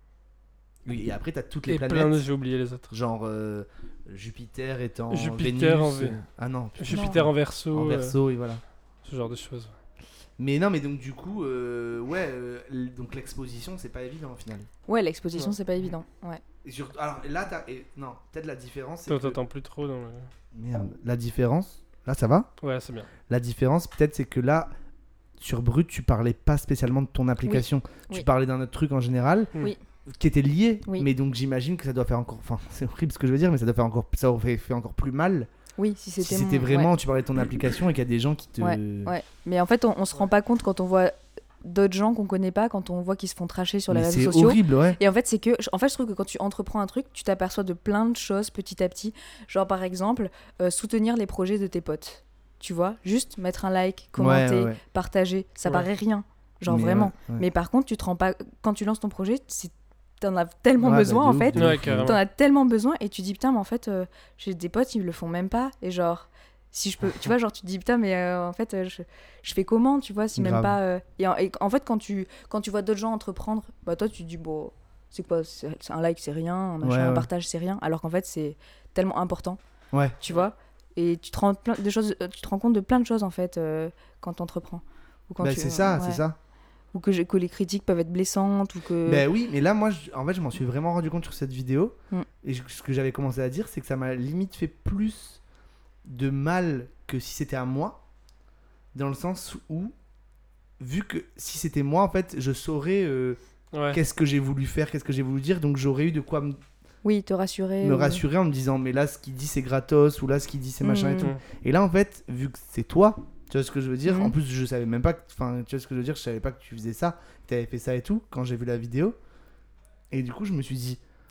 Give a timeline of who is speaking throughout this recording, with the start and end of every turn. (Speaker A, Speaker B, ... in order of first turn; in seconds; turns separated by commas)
Speaker A: 0.8-2.2, Speaker B: 1.7-2.9, Speaker A: 2.9-8.6, Speaker B: 5.1-6.2, Speaker B: 6.8-8.2, Speaker C: 6.9-7.2, Speaker B: 9.1-9.7, Speaker A: 10.4-14.7, Speaker C: 14.9-16.4, Speaker A: 16.6-19.4, Speaker B: 19.1-20.3, Speaker A: 20.5-22.5, Speaker B: 22.6-23.1, Speaker A: 23.3-24.7, Speaker A: 25.4-29.5, Speaker C: 27.4-28.3, Speaker A: 30.1-35.5, Speaker C: 35.8-36.9, Speaker A: 36.2-39.1, Speaker C: 38.6-79.6, Speaker A: 43.9-45.0, Speaker A: 54.2-54.8, Speaker A: 56.7-57.4, Speaker A: 60.8-62.1, Speaker B: 61.6-62.2, Speaker A: 70.4-70.8, Speaker A: 76.8-77.3, Speaker A: 79.9-80.2, Speaker C: 80.2-86.2, Speaker A: 85.4-86.4, Speaker C: 86.9-89.3, Speaker A: 89.0-95.4, Speaker A: 96.0-98.0, Speaker A: 98.9-99.9, Speaker A: 100.8-103.4, Speaker B: 103.7-104.0, Speaker A: 103.9-106.6, Speaker C: 107.0-108.2, Speaker A: 107.8-119.2, Speaker C: 110.8-111.3, Speaker C: 114.1-114.3, Speaker A: 120.1-121.0